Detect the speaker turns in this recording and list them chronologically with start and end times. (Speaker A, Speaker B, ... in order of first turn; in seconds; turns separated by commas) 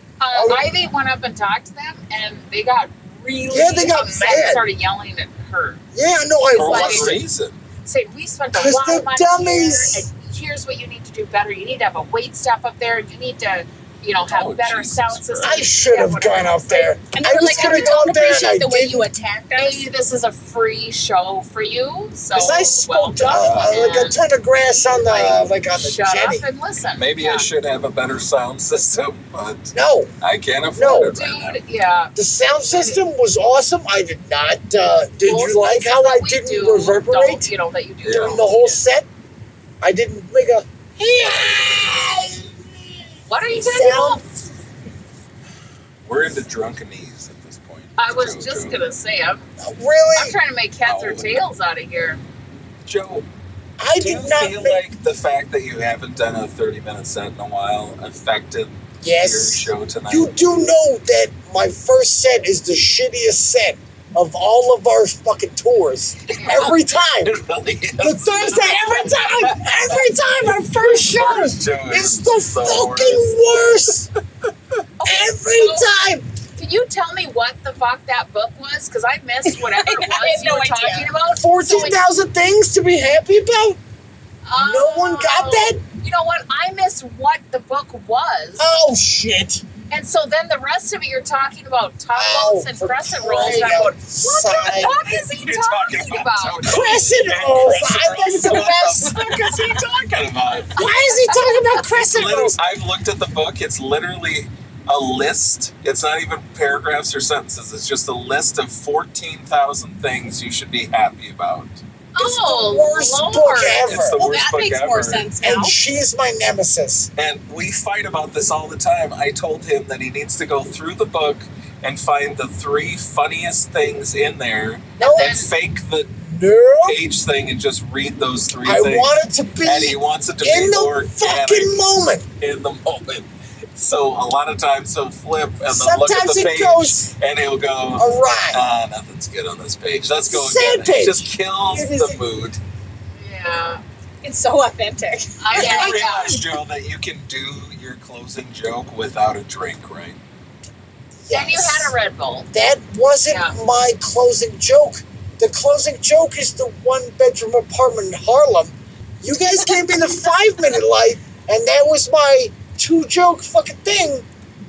Speaker A: 0.2-5.8, Speaker B: 0.3-0.7, Speaker B: 3.5-4.6, Speaker B: 5.9-7.2, Speaker C: 6.5-7.6, Speaker A: 6.5-7.2, Speaker A: 7.8-18.0, Speaker B: 8.5-10.1, Speaker C: 14.3-15.7, Speaker B: 15.4-19.1, Speaker D: 17.1-19.9, Speaker A: 19.6-24.2, Speaker B: 22.3-26.4, Speaker C: 23.2-24.0, Speaker A: 24.9-27.5, Speaker C: 26.9-31.6, Speaker B: 29.7-30.1, Speaker B: 30.8-31.2, Speaker A: 31.0-32.1, Speaker B: 32.1-37.5, Speaker A: 32.7-33.0, Speaker A: 35.2-38.8, Speaker C: 38.0-38.4, Speaker B: 38.1-39.1, Speaker B: 39.8-44.2, Speaker A: 43.3-44.2, Speaker C: 46.0-48.8, Speaker A: 48.0-49.4, Speaker B: 49.6-50.4, Speaker A: 50.1-52.2, Speaker C: 50.8-51.4, Speaker C: 52.9-53.3, Speaker B: 53.8-54.9, Speaker C: 54.0-60.3, Speaker B: 59.0-67.4, Speaker C: 66.3-70.0, Speaker A: 66.3-66.8, Speaker B: 68.0-74.1, Speaker C: 70.8-73.3, Speaker A: 75.0-75.9, Speaker B: 75.0-76.3, Speaker A: 76.6-82.0, Speaker D: 79.6-81.1, Speaker B: 81.4-83.8, Speaker A: 84.5-88.7, Speaker B: 84.6-85.8, Speaker B: 88.6-89.7, Speaker A: 89.9-97.0, Speaker B: 92.1-95.0, Speaker C: 94.7-100.8, Speaker B: 96.6-99.6, Speaker B: 100.8-102.6, Speaker A: 100.8-101.8, Speaker C: 102.0-111.8, Speaker A: 112.1-114.0, Speaker B: 112.2-114.2, Speaker C: 113.8-115.3, Speaker D: 114.2-115.8, Speaker B: 115.4-117.1, Speaker C: 117.2-126.1, Speaker A: 125.0-125.5, Speaker B: 125.0-125.3, Speaker B: 126.2-127.0, Speaker C: 126.8-129.1, Speaker B: 128.6-132.3, Speaker C: 129.6-131.8, Speaker C: 132.4-142.6, Speaker B: 135.7-137.1, Speaker B: 138.0-138.6, Speaker B: 140.3-142.2, Speaker A: 143.2-143.8, Speaker D: 144.2-145.4, Speaker A: 145.4-146.4, Speaker C: 145.5-150.2, Speaker B: 145.6-146.4, Speaker B: 151.3-151.9, Speaker A: 151.3-152.5, Speaker B: 152.5-164.3, Speaker A: 153.3-153.6